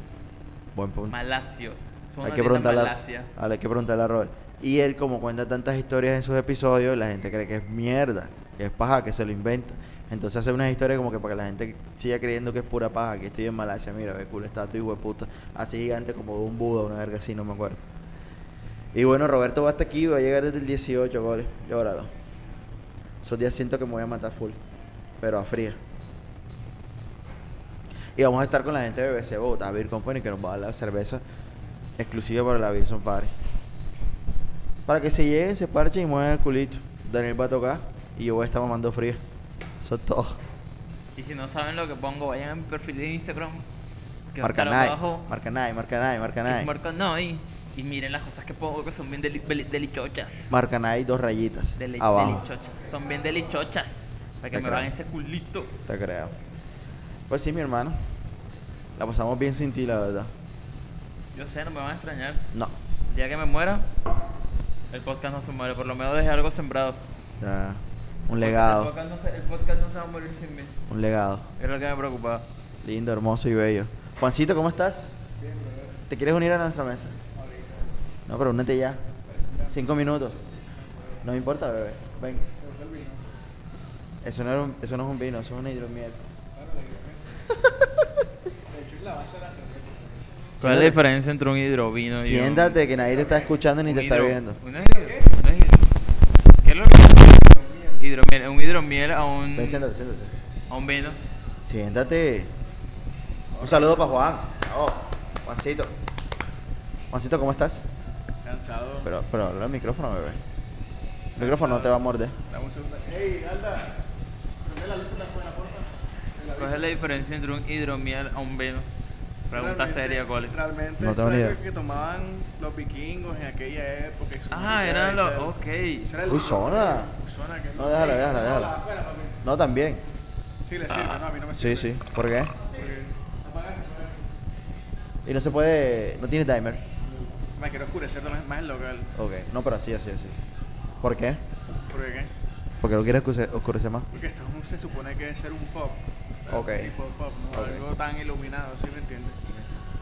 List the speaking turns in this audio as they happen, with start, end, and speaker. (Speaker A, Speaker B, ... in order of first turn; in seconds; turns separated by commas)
Speaker A: 0.7-1.2, Speaker B: 1.1-3.3, Speaker A: 2.2-17.9, Speaker A: 18.9-22.1, Speaker A: 23.2-24.6, Speaker A: 25.2-25.8, Speaker A: 28.1-31.2, Speaker A: 32.0-33.3, Speaker A: 34.9-39.2, Speaker A: 39.8-40.4, Speaker B: 41.1-43.6, Speaker B: 44.3-45.3, Speaker A: 44.4-46.7, Speaker B: 46.4-50.5, Speaker A: 50.5-52.4, Speaker B: 51.8-55.7, Speaker A: 54.5-54.9, Speaker A: 55.9-56.3, Speaker A: 57.3-58.0, Speaker A: 59.0-60.3, Speaker B: 61.3-62.5, Speaker B: 63.1-63.9, Speaker B: 64.9-67.0, Speaker A: 67.4-68.9, Speaker B: 68.4-70.8, Speaker A: 70.9-71.5, Speaker B: 71.6-72.4, Speaker A: 72.8-75.1, Speaker C: 75.4-76.0, Speaker A: 76.1-77.2, Speaker C: 77.3-77.9, Speaker A: 78.3-79.0, Speaker C: 79.3-79.8, Speaker A: 79.7-80.4, Speaker A: 81.2-82.5, Speaker C: 82.6-83.3, Speaker A: 84.2-86.2, Speaker C: 86.5-87.2, Speaker C: 88.7-90.2, Speaker A: 90.6-91.0, Speaker B: 90.6-92.8, Speaker A: 92.2-94.6, Speaker C: 93.0-93.5, Speaker B: 93.8-95.9, Speaker C: 94.7-95.3, Speaker B: 96.6-99.8, Speaker C: 97.6-98.0, Speaker A: 99.5-100.3, Speaker B: 100.7-101.2, Speaker A: 101.6-102.5, Speaker C: 103.5-104.0, Speaker A: 103.6-105.9, Speaker A: 107.1-107.9, Speaker C: 108.4-109.1, Speaker A: 109.0-110.4, Speaker A: 111.3-112.3, Speaker C: 111.4-111.9, Speaker C: 112.5-114.0, Speaker C: 114.6-117.0, Speaker B: 116.6-118.9, Speaker B: 119.5-120.5, Speaker C: 119.5-125.5, Speaker A: 121.0-121.6, Speaker B: 124.5-126.1, Speaker C: 126.0-129.4, Speaker A: 126.2-127.1, Speaker A: 127.8-128.8, Speaker A: 129.4-130.0, Speaker C: 130.7-131.9, Speaker A: 130.9-132.6, Speaker C: 132.7-134.2, Speaker A: 135.2-136.8, Speaker C: 137.1-139.1, Speaker A: 139.1-140.4, Speaker A: 141.0-141.4, Speaker C: 141.8-142.3, Speaker A: 142.8-144.1, Speaker C: 144.1-149.7, Speaker A: 146.5-146.9, Speaker A: 147.5-147.8